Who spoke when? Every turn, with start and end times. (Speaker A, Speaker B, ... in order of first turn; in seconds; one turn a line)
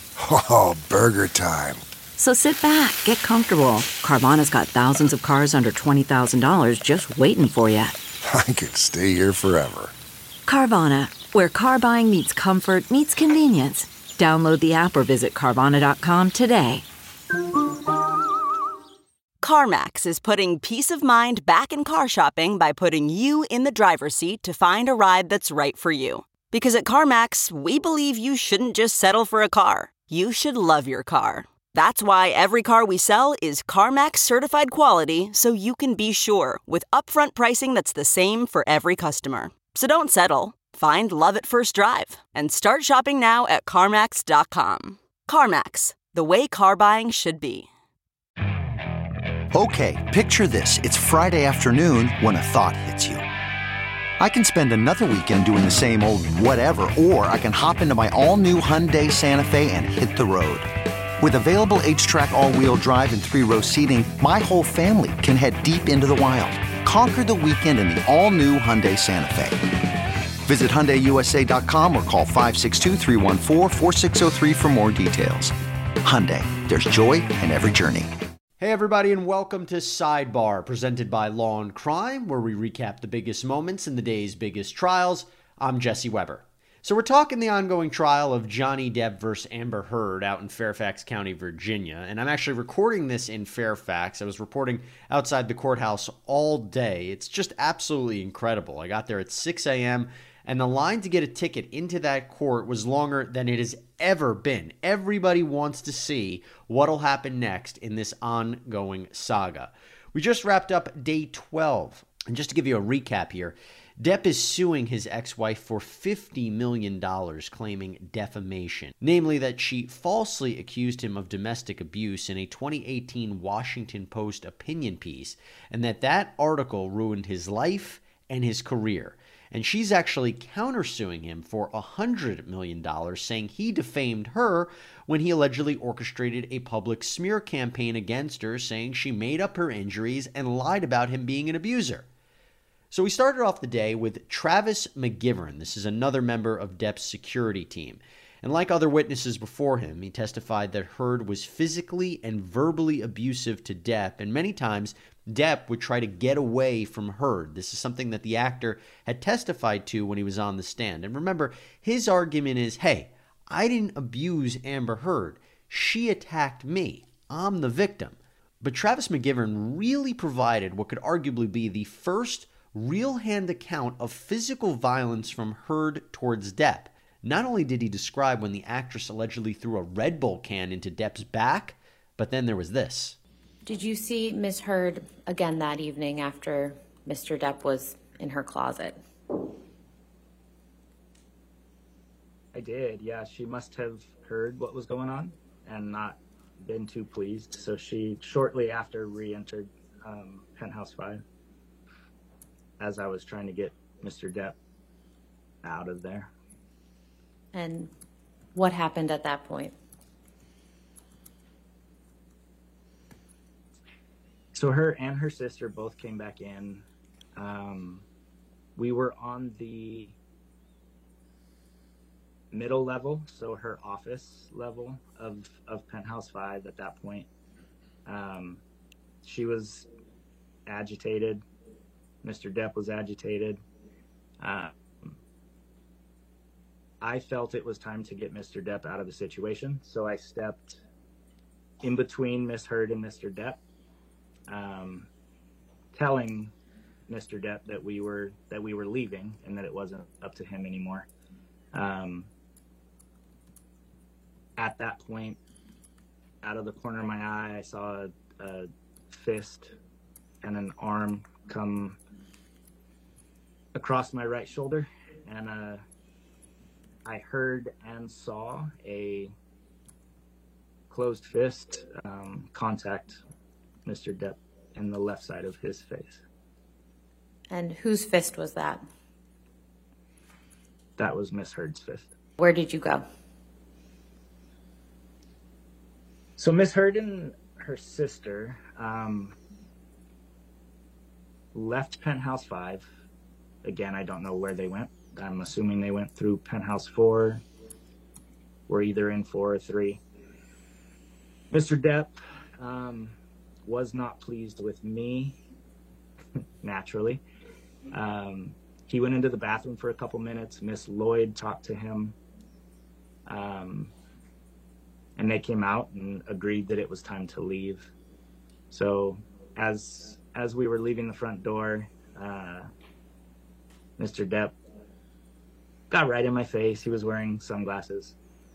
Speaker A: 0.3-1.8
Speaker B: 2.2-7.9
Speaker A: 8.3-9.9
Speaker B: 10.5-16.8
Speaker C: 19.4-47.7
Speaker D: 49.5-53.2
Speaker D: 54.2-60.7
Speaker D: 61.2-69.6
Speaker D: 70.5-78.1
Speaker E: 78.6-142.1
Speaker E: 142.9-183.2
Speaker F: 183.7-189.0
Speaker G: 192.5-201.2
Speaker G: 202.8-204.6
Speaker G: 205.6-206.3
Speaker F: 207.5-207.9
Speaker F: 208.5-209.7
Speaker G: 214.5-216.8
Speaker G: 217.3-218.0
Speaker G: 218.8-220.1
Speaker G: 222.5-227.3
Speaker G: 228.1-228.6
Speaker G: 229.2-229.9
Speaker G: 230.7-231.4
Speaker G: 232.2-233.6
Speaker G: 234.4-235.2
Speaker G: 237.0-240.8
Speaker G: 241.8-243.6
Speaker G: 244.5-245.1
Speaker G: 245.9-246.5
Speaker G: 247.1-251.1
Speaker G: 251.7-252.3
Speaker G: 254.6-255.4
Speaker G: 256.4-259.7
Speaker G: 260.4-262.0
Speaker G: 263.7-265.8
Speaker G: 267.0-269.3
Speaker G: 270.9-273.2
Speaker G: 273.8-276.2
Speaker F: 277.5-278.8
Speaker G: 281.0-282.1
Speaker F: 282.4-283.0
Speaker G: 286.4-289.4
Speaker G: 291.5-292.9
Speaker G: 293.6-297.4
Speaker G: 298.7-300.0
Speaker G: 301.5-305.4
Speaker G: 306.6-307.2
Speaker G: 307.9-312.1
Speaker G: 313.2-313.9
Speaker G: 315.1-317.9
Speaker G: 318.7-322.7
Speaker G: 324.0-324.6
Speaker G: 325.9-328.1